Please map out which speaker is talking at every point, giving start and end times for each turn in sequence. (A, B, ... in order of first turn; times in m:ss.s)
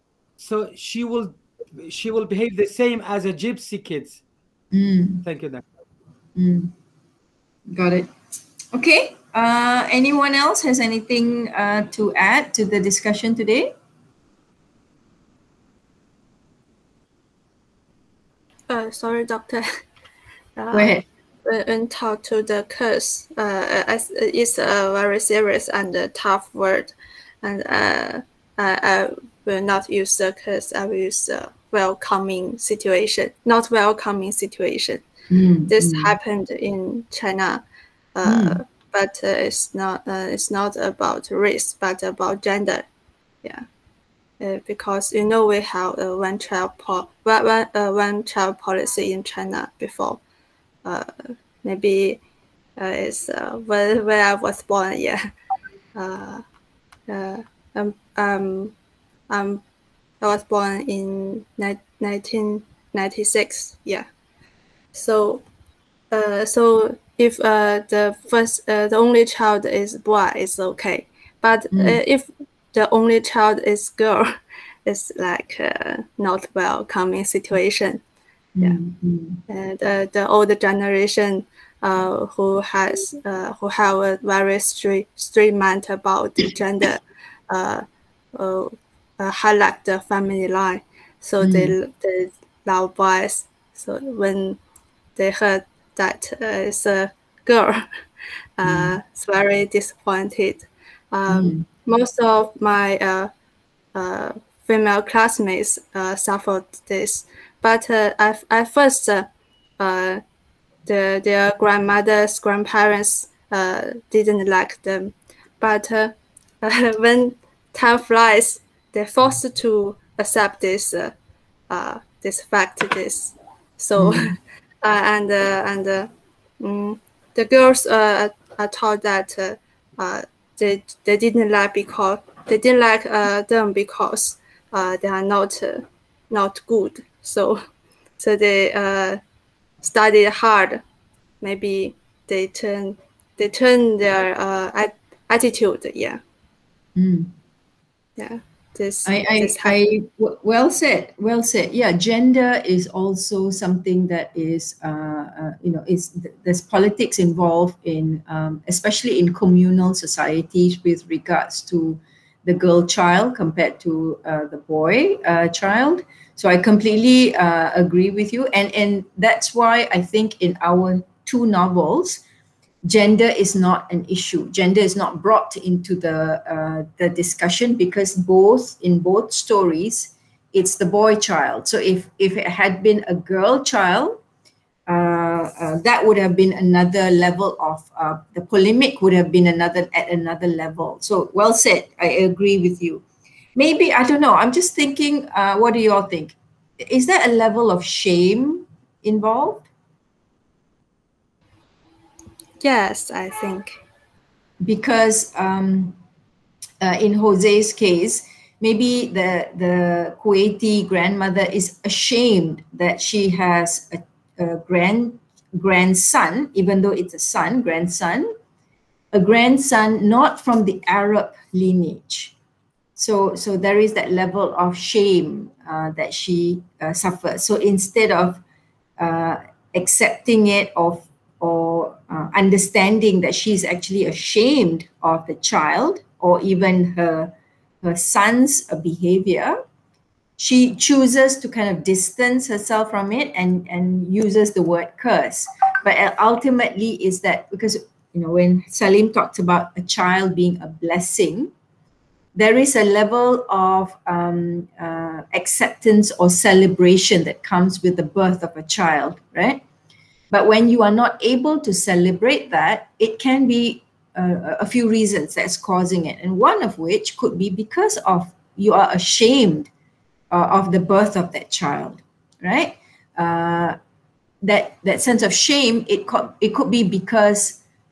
0:00.4-0:04.2 A
0:04.7-0:05.2 B
0:05.2-0:05.6 A
0:06.4-0:06.7 B
0:07.7-0:08.1 B
0:08.7-0:13.7 B
0:18.7-0:19.7 C
0:20.6-0:35.1 C
0:20.7-0:21.0 B
0:35.3-0:36.2 B
0:35.7-0:37.6 C
0:38.1-0:42.8 C
0:38.2-0:38.6 B
0:44.4-0:50.2 C
0:50.8-0:52.2 C
0:52.8-0:55.3 C
0:55.9-0:56.4 C
0:57.1-0:58.7 C
0:59.3-0:59.6 C
1:00.2-1:04.0 C
1:04.9-1:05.4 C
1:06.1-1:18.0 C
1:11.7-1:12.0 B
1:18.6-1:19.4 B
1:19.5-1:34.6 C
1:31.4-1:31.7 B
1:35.2-1:38.0 C
1:38.6-1:43.3 C
1:38.6-1:39.0 B
1:41.3-1:41.6 B
1:43.9-1:49.3 C
1:49.8-1:50.2 C
1:50.9-2:01.1 C
2:01.7-2:17.6 C
2:04.0-2:04.4 B
2:18.2-2:19.2 C
2:19.8-2:20.8 C
2:21.4-2:26.2 C
2:27.0-2:27.3 B
2:28.2-2:29.8 C
2:29.0-2:52.2 B
2:52.8-3:04.2 B
3:04.9-3:13.0 B
3:13.5-3:19.7 B
3:22.6-3:23.8 C
3:24.6-3:26.0 B
3:26.8-3:38.3 B
3:39.1-3:42.3 B
3:43.0-3:48.4 B
3:49.0-3:59.6 B
4:00.4-4:11.5 B
4:12.3-4:19.6 B
4:20.3-4:29.7 B
4:30.3-4:33.8 B
4:34.4-4:37.6 B